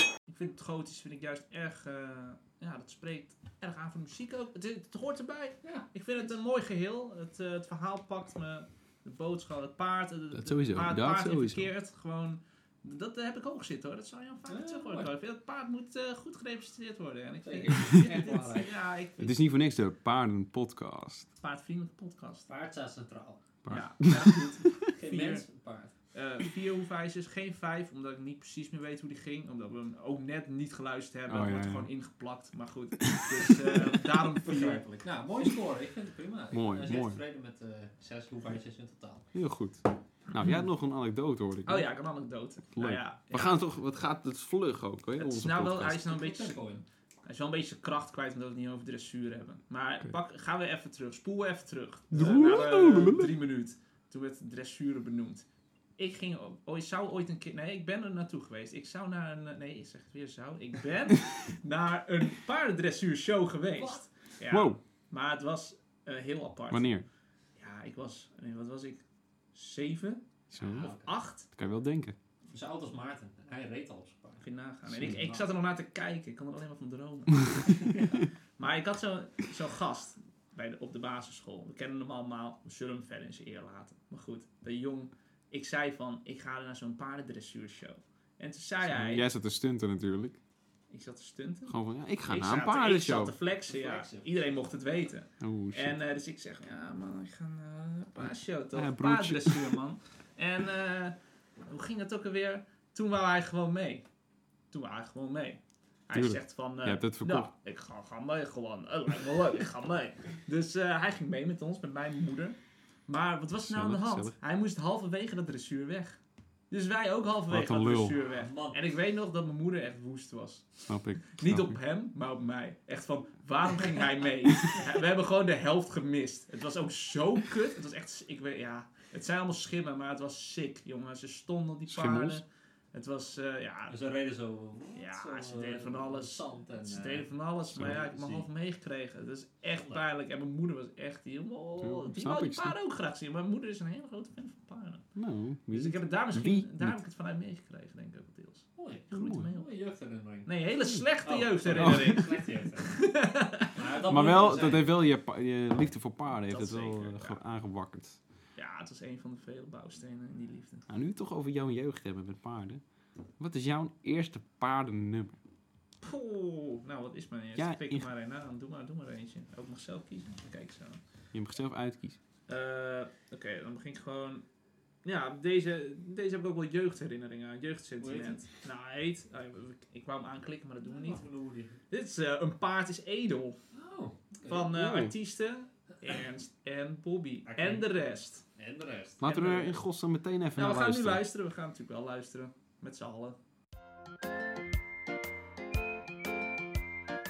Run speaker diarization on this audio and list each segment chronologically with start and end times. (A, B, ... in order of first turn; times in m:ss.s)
0:00.3-0:19.3 A
0:05.6-0:06.4 B
0:10.3-0:11.7 C
0:14.5-0:15.1 B
0:17.4-0:18.7 B
0:19.2-0:21.3 C
0:21.4-0:22.4 A
0:22.5-0:23.4 B
0:23.6-0:24.9 C
0:23.7-0:25.4 A
0:24.9-0:25.9 B
0:26.1-0:34.9 A
0:31.3-0:31.9 C
0:34.4-0:39.3 B
0:36.5-0:37.2 C
0:39.3-0:41.9 C
0:41.6-0:43.6 A
0:42.7-0:46.0 C
0:45.2-0:46.6 A
0:45.8-0:46.8 B
0:47.2-0:55.4 A
0:52.1-0:53.3 C
0:56.0-1:06.9 A
1:03.7-1:04.1 B
1:04.5-1:04.8 C
1:06.7-1:07.1 C
1:07.6-1:09.0 A
1:09.6-1:11.5 A
1:10.5-1:10.9 C
1:10.6-1:11.1 B
1:11.5-1:12.2 C
1:12.5-1:15.5 B
1:14.4-1:18.0 A
1:17.8-1:18.2 B
1:18.6-1:29.3 A
1:28.8-1:30.4 C
1:30.9-1:41.2 A
1:31.7-1:33.4 C
1:33.6-1:34.3 B
1:35.4-1:36.0 C
1:38.7-1:39.8 C
1:41.7-1:44.0 A
1:44.7-1:56.2 A
1:46.1-1:47.5 C
1:53.6-1:54.4 C
1:56.7-2:14.0 A
1:57.5-1:58.2 C
1:58.2-1:58.8 B
2:00.8-2:01.8 C
2:11.9-2:12.4 C
2:13.9-2:18.4 B
2:14.9-2:25.1 A
2:17.7-2:18.0 C
2:19.7-2:20.0 B
2:21.8-2:22.8 C
2:25.1-2:27.0 C
2:25.7-2:29.7 A
2:28.8-2:30.6 B
2:29.2-2:29.4 C
2:30.4-2:32.4 A
2:31.2-2:34.9 B
2:31.7-2:32.2 C
2:32.9-2:33.7 A
2:34.1-2:38.2 C
2:36.5-2:37.3 B
2:38.6-2:40.8 A
2:40.9-2:42.8 C
2:43.4-2:45.4 C
2:46.0-2:51.0 A
2:47.6-2:48.1 C
2:51.3-2:52.2 C
2:52.5-2:54.4 A
2:55.0-3:01.2 A
2:58.0-2:58.4 B
3:00.8-3:01.8 B
3:01.9-3:03.6 A
3:03.7-3:04.7 B
3:04.5-3:08.4 A
3:04.7-3:05.1 C
3:07.4-3:08.0 B
3:08.6-3:09.3 B
3:09.2-3:11.2 C
3:09.2-3:09.7 A
3:10.6-3:13.4 A